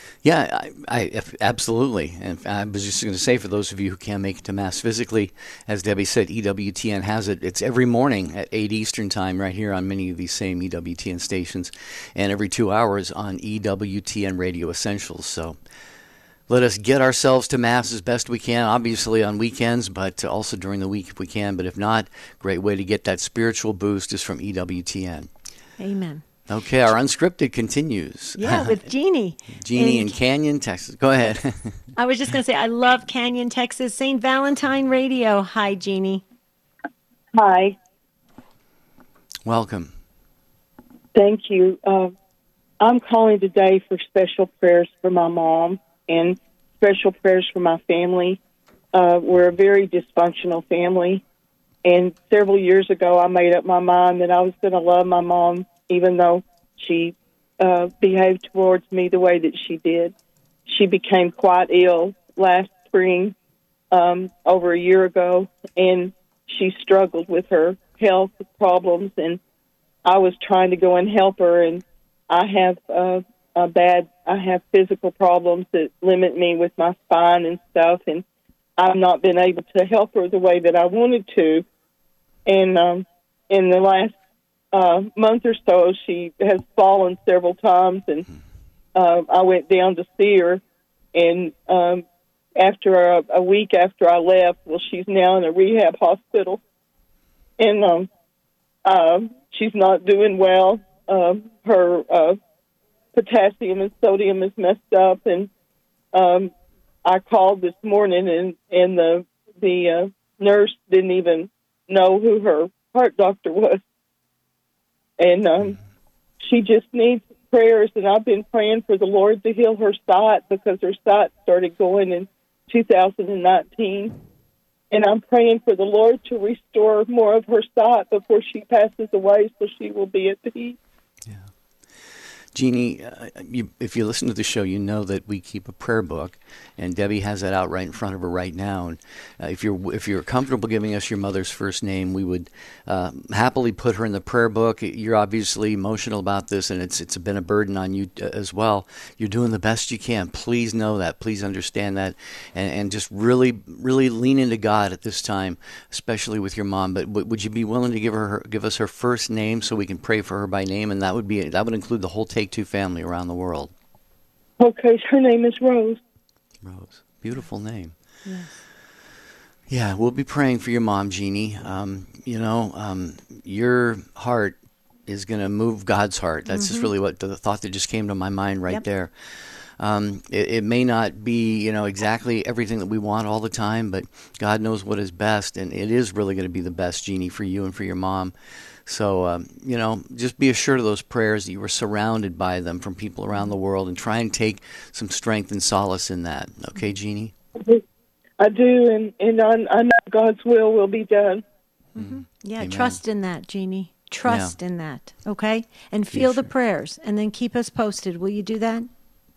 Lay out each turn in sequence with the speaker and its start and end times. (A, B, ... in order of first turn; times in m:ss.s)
0:00.2-0:15.6 A
0:16.5-0:25.3 A
0:25.8-0:26.2 B
0:26.5-0:28.8 A
0:28.4-0:30.2 B
0:29.6-0:31.8 A
0:32.0-0:36.2 B
0:37.3-0:37.8 C
0:39.4-0:39.9 A
0:41.1-0:42.1 C
0:42.8-0:48.4 C
0:48.9-0:51.2 C
0:51.8-1:00.1 C
1:00.7-1:03.3 C
1:03.9-1:09.4 C
1:10.0-1:18.2 C
1:18.8-1:21.6 C
1:22.4-1:24.2 C
1:24.7-1:28.3 C
1:28.9-1:30.6 C
1:31.1-1:36.6 C
1:37.6-1:38.1 C
1:38.8-1:42.4 C
1:43.1-1:45.5 C
1:46.1-1:46.5 C
1:47.0-1:53.8 C
1:55.2-1:55.8 C
1:56.4-2:04.2 C
2:04.9-2:10.8 C
2:12.5-2:43.7 A
2:44.6-2:46.0 C
2:46.6-2:47.9 A
2:48.2-2:48.6 B
2:49.7-2:54.6 A
2:55.1-2:59.1 A
2:56.5-2:56.9 B
2:59.8-3:08.3 A
3:08.8-3:17.3 A
3:17.6-3:17.8 C
3:18.4-3:21.4 C
3:22.0-3:28.9 B
3:22.0-3:23.0 A
3:24.2-3:24.5 A
3:26.1-3:26.5 A